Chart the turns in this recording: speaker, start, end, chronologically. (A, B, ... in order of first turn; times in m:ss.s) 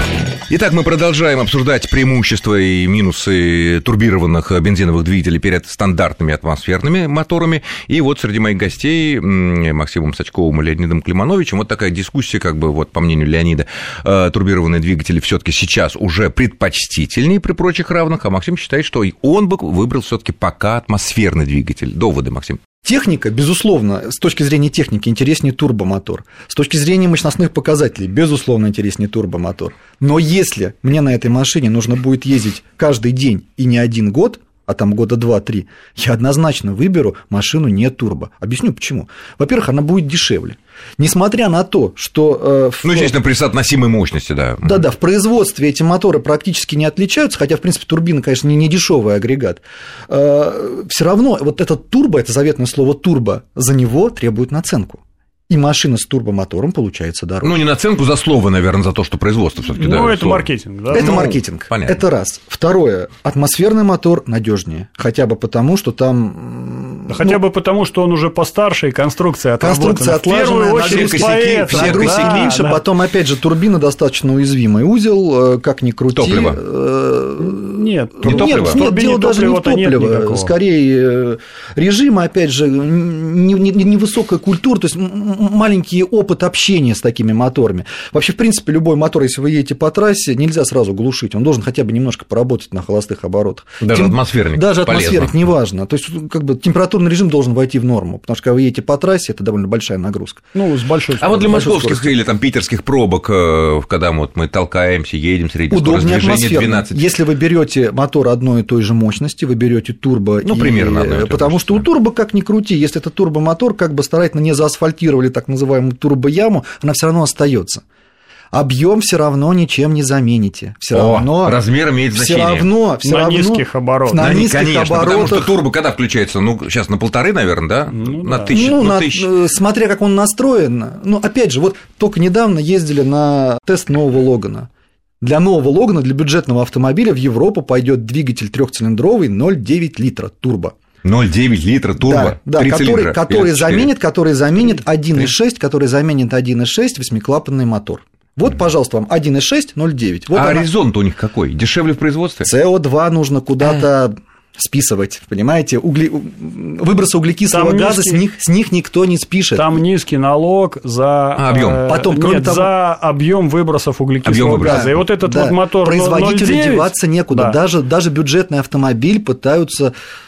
0:00.5-0:22.6 A
0:22.8-0:43.2 B
0:42.8-0:44.8 A
0:44.6-0:57.6 B
0:57.4-1:02.0 A
0:59.7-1:01.2 C
1:00.9-1:07.4 B
1:07.1-1:12.8 C
1:09.6-1:40.4 B
1:10.8-1:12.5 A
1:16.1-1:16.6 A
1:17.4-1:20.5 C
1:18.2-1:18.8 A
1:33.8-1:35.5 A
1:40.5-1:41.8 C
1:41.2-1:47.0 A
1:41.5-1:42.1 B
1:45.7-1:57.8 B
1:50.4-1:51.9 A
1:58.5-2:05.6 B
2:00.9-2:02.7 A
2:03.0-2:04.4 C
2:04.2-2:09.3 A
2:07.9-2:08.6 C
2:08.5-2:14.7 B
2:15.2-2:20.8 B
2:21.0-2:23.9 A
2:22.0-2:30.7 B
2:30.3-2:32.5 A
2:32.4-2:39.8 B
2:37.5-2:38.2 C
2:39.5-2:47.6 C
2:41.4-2:41.8 A
2:41.9-2:42.7 B
2:44.2-2:44.9 A
2:44.6-2:49.9 B